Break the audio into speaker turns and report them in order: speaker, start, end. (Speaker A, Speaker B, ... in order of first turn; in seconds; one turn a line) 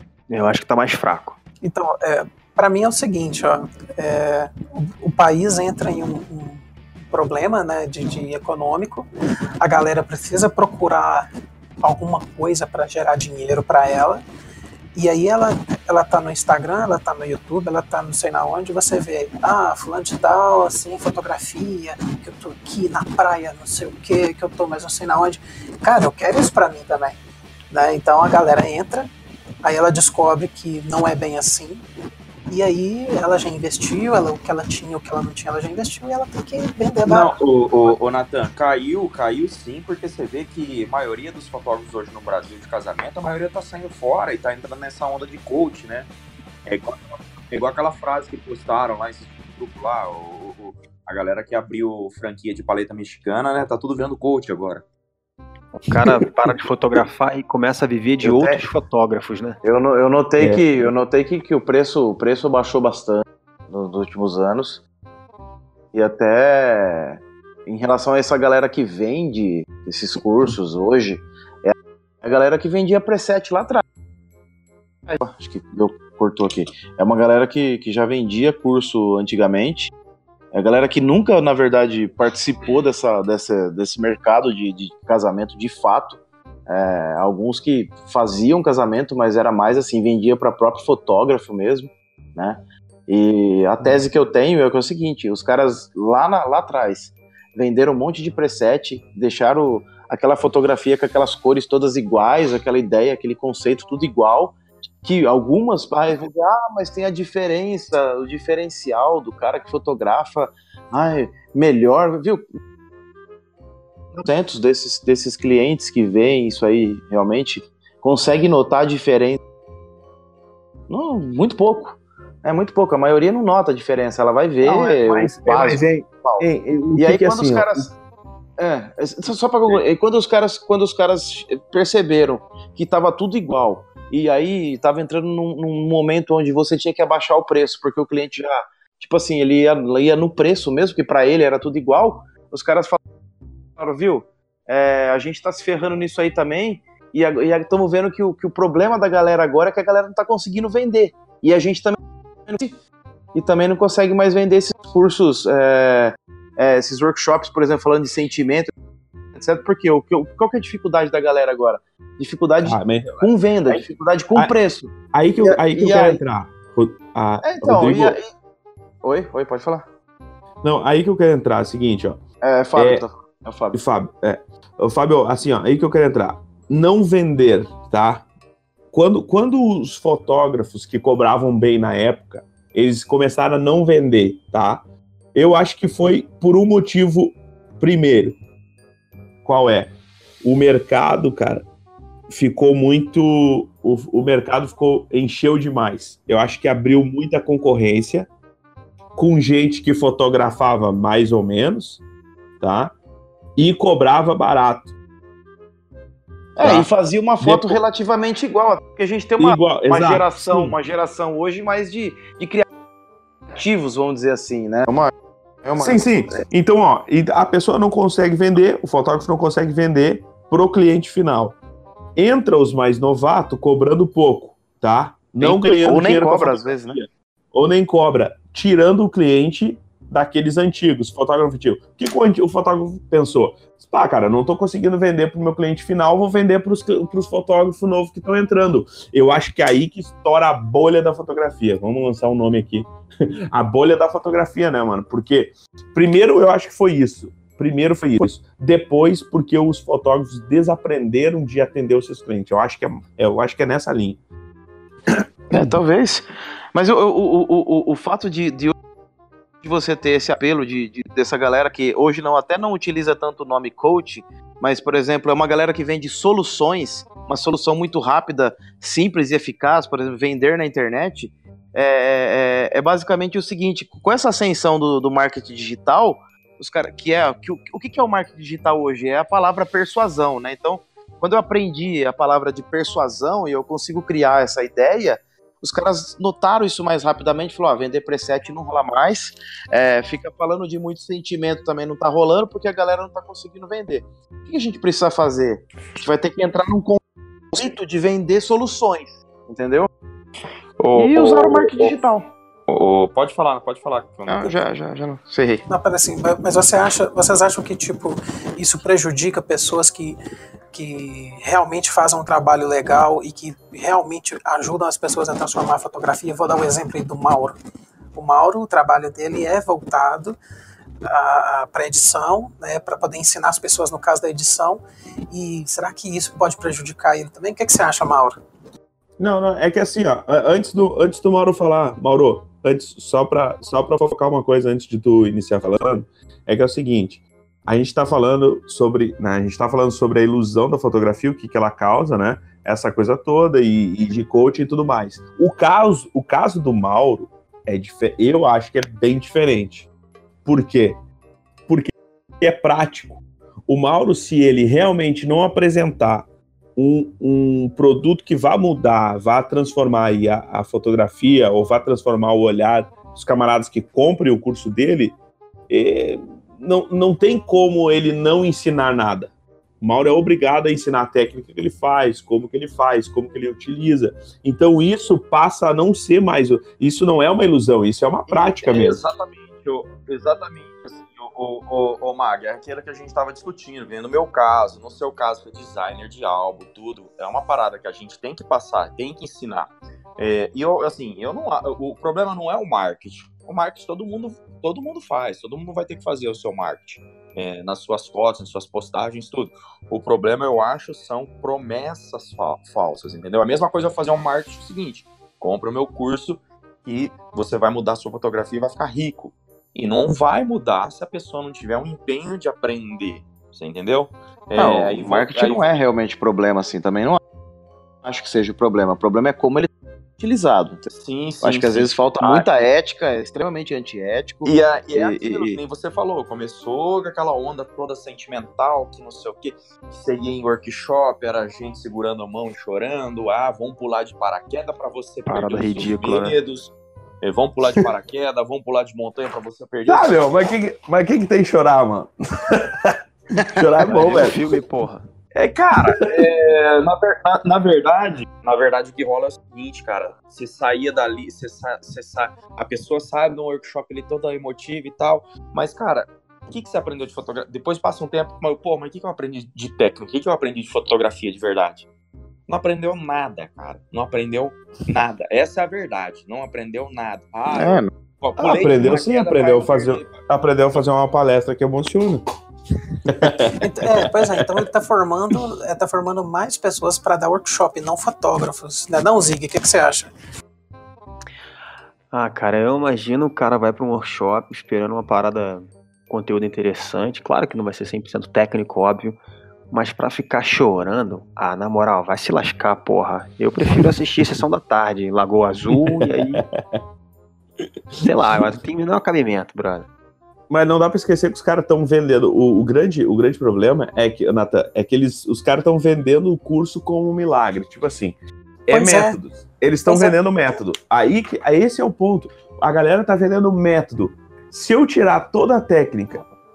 Speaker A: 0.3-1.4
Speaker B: 1.6-9.1
Speaker B: 9.6-11.3
Speaker B: 11.8-14.2
Speaker B: 14.9-27.2
Speaker B: 27.7-29.1
Speaker B: 29.6-31.8
Speaker B: 32.5-37.3
Speaker C: 37.1-46.1
Speaker C: 46.7-54.8
Speaker A: 55.8-59.6
Speaker D: 58.2-58.6
Speaker E: 59.6-64.8
Speaker D: 60.4-60.7
Speaker E: 65.9-73.8
Speaker E: 75.1-79.9
Speaker E: 80.5-112.5
Speaker E: 114.2-119.4
Speaker E: 120.9-127.9
Speaker D: 124.6-127.9
Speaker E: 128.6-143.0
Speaker E: 143.8-152.8
Speaker E: 153.3-158.7
Speaker E: 159.4-166.2
Speaker D: 162.6-164.6
Speaker D: 165.1-168.2
Speaker E: 167.4-168.3
Speaker E: 169.0-169.9
Speaker D: 170.6-172.2
Speaker E: 172.4-173.8
Speaker D: 172.8-173.1
Speaker D: 173.7-178.3
Speaker D: 178.9-184.8
Speaker D: 185.3-188.4
Speaker D: 189.4-191.7
Speaker D: 192.3-198.3
Speaker D: 199.2-202.0
Speaker D: 202.6-202.9
Speaker D: 203.6-204.9
Speaker E: 206.6-212.7
Speaker D: 206.6-206.9
Speaker D: 207.4-207.8
Speaker D: 209.4-210.8
Speaker E: 213.5-215.1
Speaker E: 215.6-216.4
Speaker D: 215.8-221.6
Speaker D: 222.2-254.2
Speaker E: 225.4-227.0
Speaker E: 255.5-258.7
Speaker E: 259.6-299.9
Speaker C: 300.8-301.9
Speaker E: 300.9-302.3
Speaker C: 302.7-304.6
Speaker E: 304.3-305.6
Speaker B: 305.7-310.2
Speaker B: 310.7-317.6
Speaker B: 318.1-320.4
Speaker B: 321.1-328.4
Speaker D: 329.2-349.9
Speaker D: 350.4-351.0
Speaker D: 351.7-365.2
Speaker D: 365.7-379.0
Speaker C: 378.3-415.7
Speaker E: 414.6-417.2
Speaker E: 418.0-420.9
Speaker C: 420.9-422.5
Speaker E: 421.4-425.6
Speaker C: 424.4-440.2
Speaker A: 435.2-436.4
Speaker D: 439.9-443.0
Speaker D: 443.5-444.6
Speaker A: 443.8-445.1
Speaker D: 445.4-446.2
Speaker C: 445.6-461.9
Speaker C: 462.5-470.2
Speaker E: 467.5-467.9
Speaker D: 468.4-472.2
Speaker D: 473.1-474.6
Speaker B: 473.6-480.1
Speaker A: 482.1-489.2
Speaker A: 489.7-496.4
Speaker D: 495.7-496.8
Speaker A: 498.0-499.9
Speaker D: 500.5-516.2
Speaker B: 508.7-509.2
Speaker B: 509.9-510.2